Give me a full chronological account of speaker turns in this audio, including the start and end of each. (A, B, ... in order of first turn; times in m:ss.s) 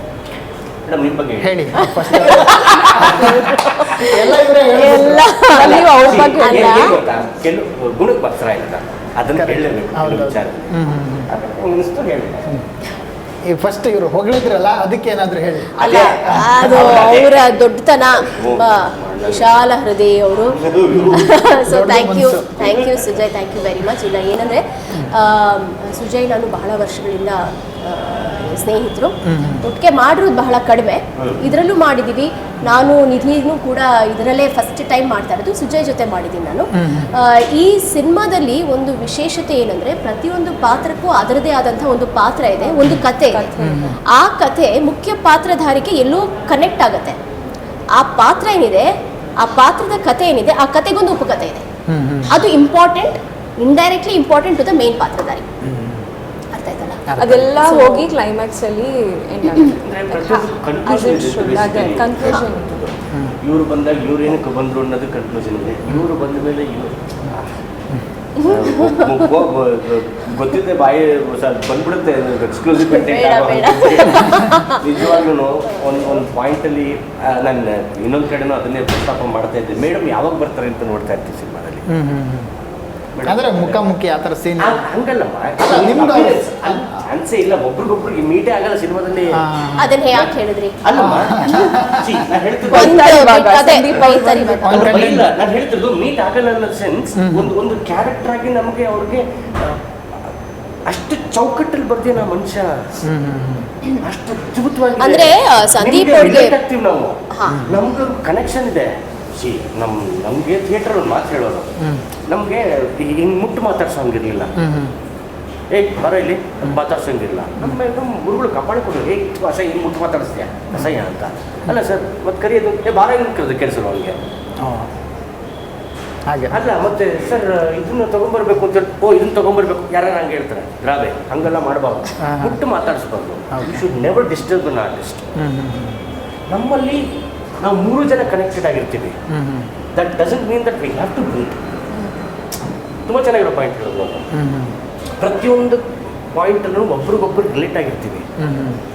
0:00.8-0:04.1 A
0:01.4-0:05.3 B
0:02.2-0:03.1 C
0:04.7-0:07.0 D
0:04.8-0:07.0 C
0:05.5-0:10.6 A
0:09.3-0:11.3 B
0:11.3-0:12.5 A
0:13.5-0:17.0 B
0:15.8-0:17.5 A
0:15.8-0:43.5 C
0:18.3-0:19.5 A
0:20.6-0:21.3 A
0:20.9-0:22.6 B
0:22.6-0:23.1 A
0:29.2-0:29.6 B
0:36.8-0:37.1 B
0:43.3-0:44.0 D
0:43.6-0:44.0 B
0:44.0-0:47.2 C
0:47.9-0:51.6 C
0:51.9-0:52.3 B
0:52.3-0:55.4 C
0:55.6-0:56.0 B
0:56.5-0:57.0 C
0:57.1-0:57.6 B
0:57.2-1:02.8 D
0:57.6-0:58.1 C
0:59.8-1:07.6 A
1:03.1-1:03.4 B
1:08.4-1:21.9 A
1:12.8-1:14.8 C
1:21.9-1:22.5 B
1:23.2-1:23.9 A
1:23.3-1:24.8 B
1:24.6-1:29.4 A
1:25.6-1:27.0 B
1:29.3-1:30.0 B
1:29.8-1:30.8 C
1:30.1-1:33.2 A
1:31.0-1:32.3 B
1:32.7-1:34.9 D
1:32.7-1:35.0 C
1:34.6-1:35.3 B
1:34.7-1:39.8 A
1:37.2-1:37.5 B
1:40.9-1:42.8 A
1:43.0-1:43.7 B
1:44.0-1:51.7 A
1:45.0-1:46.6 C
1:47.3-1:47.6 C
1:47.5-1:47.8 B
1:51.8-1:52.0 B
1:52.3-1:54.5 A
1:54.6-1:54.9 B
1:55.7-2:04.2 A
2:04.6-2:04.9 B
2:06.3-2:06.6 B
2:06.5-2:15.3 A
2:12.2-2:12.6 B
2:13.5-2:13.8 B
2:15.4-2:16.0 B
2:16.5-2:17.0 A
2:17.6-2:19.2 A
2:19.3-2:19.7 B
2:20.0-2:21.6 A
2:23.1-2:24.3 A
2:24.3-2:24.8 B
2:25.2-2:28.3 A
2:28.4-2:28.8 B